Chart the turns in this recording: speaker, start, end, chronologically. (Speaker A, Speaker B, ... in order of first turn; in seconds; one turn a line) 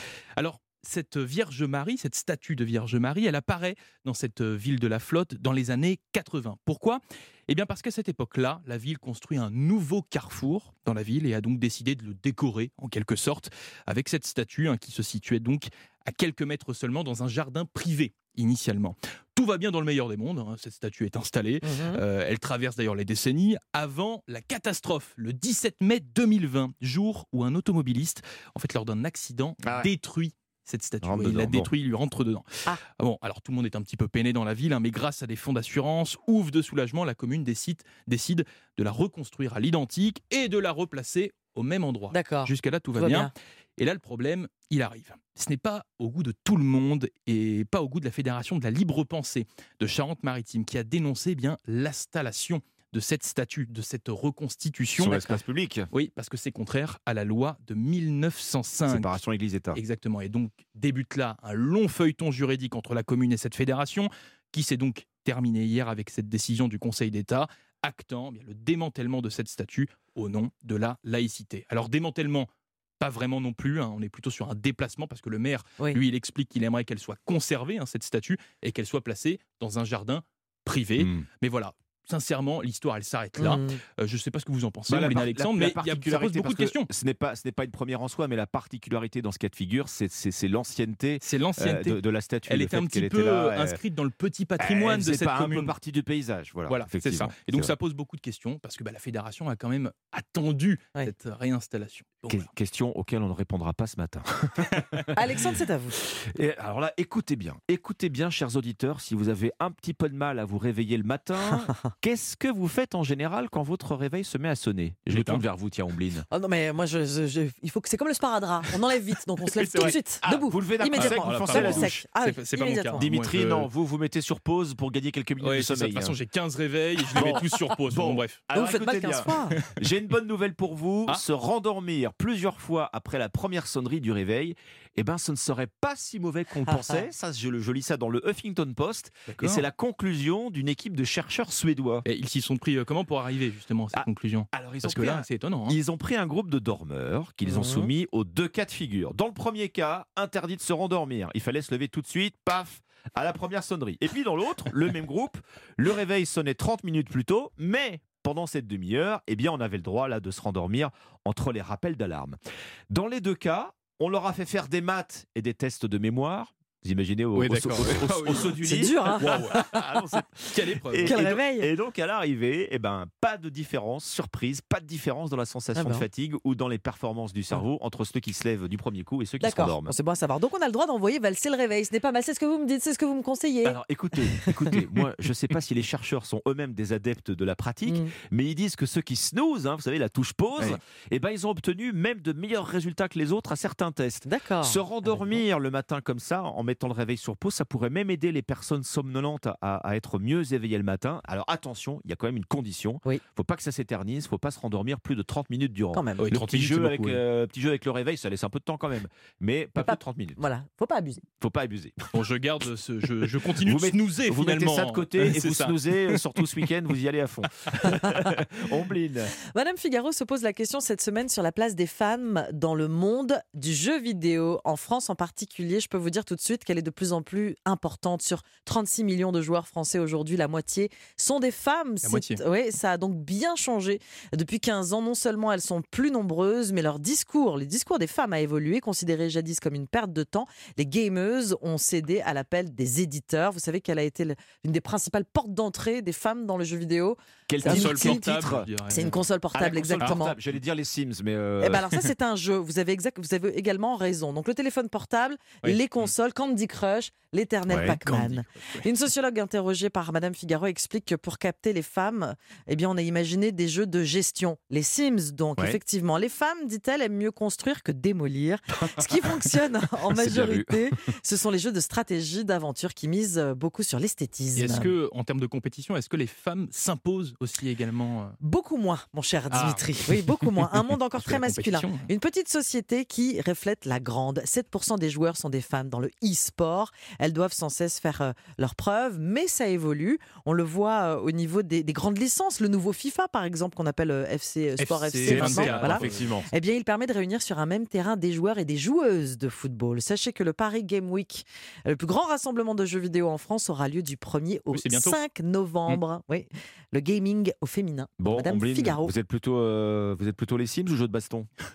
Speaker A: 0.4-55.4
Speaker B: 21.6-22.0
Speaker C: 29.6-29.9
Speaker C: 31.0-31.7
Speaker B: 42.1-43.3
Speaker C: 55.0-55.9
Speaker A: 55.9-59.2
Speaker C: 58.9-59.8
Speaker A: 59.7-72.5
Speaker A: 73.0-86.9
Speaker C: 81.0-81.3
Speaker B: 83.4-83.8
Speaker C: 84.9-93.8
Speaker A: 91.2-95.7
Speaker C: 94.6-97.8
Speaker A: 96.7-102.5
Speaker C: 102.3-105.2
Speaker B: 105.2-106.0
Speaker C: 106.0-116.3
Speaker A: 115.1-115.4
Speaker B: 116.3-123.0
Speaker A: 119.5-120.0
Speaker C: 119.8-121.9
Speaker A: 120.9-123.7
Speaker C: 123.0-126.2
Speaker A: 125.4-128.4
Speaker C: 127.1-142.1
Speaker B: 128.5-129.6
Speaker B: 136.7-137.0
Speaker A: 139.3-139.7
Speaker A: 142.1-145.8
Speaker C: 143.9-162.4
Speaker B: 147.5-147.9
Speaker C: 162.9-179.9
Speaker A: 167.3-168.6
Speaker B: 168.6-169.8
Speaker A: 169.2-169.6
Speaker A: 170.5-171.2
Speaker B: 171.0-171.7
Speaker B: 175.8-176.1
Speaker B: 179.4-183.8
Speaker C: 183.6-210.4
Speaker B: 184.3-184.7
Speaker B: 187.9-188.1
Speaker B: 194.2-195.4
Speaker B: 205.9-206.3
Speaker A: 206.2-207.2
Speaker B: 209.8-211.2
Speaker C: 211.4-212.1
Speaker A: 212.1-216.4
Speaker C: 213.5-219.3
Speaker B: 219.5-248.3
Speaker A: 232.0-232.4
Speaker C: 247.5-248.7
Speaker A: 247.6-249.3
Speaker B: 248.9-250.4
Speaker C: 249.5-251.8
Speaker B: 251.6-274.9
Speaker A: 255.6-256.1
Speaker C: 257.7-258.0
Speaker A: 257.8-258.9
Speaker C: 270.1-270.8
Speaker A: 274.6-278.4
Speaker B: 278.4-309.1
Speaker A: 279.5-279.9
Speaker A: 281.2-282.1
Speaker A: 294.8-296.3
Speaker C: 295.2-296.5
Speaker A: 304.7-305.2
Speaker C: 308.2-311.5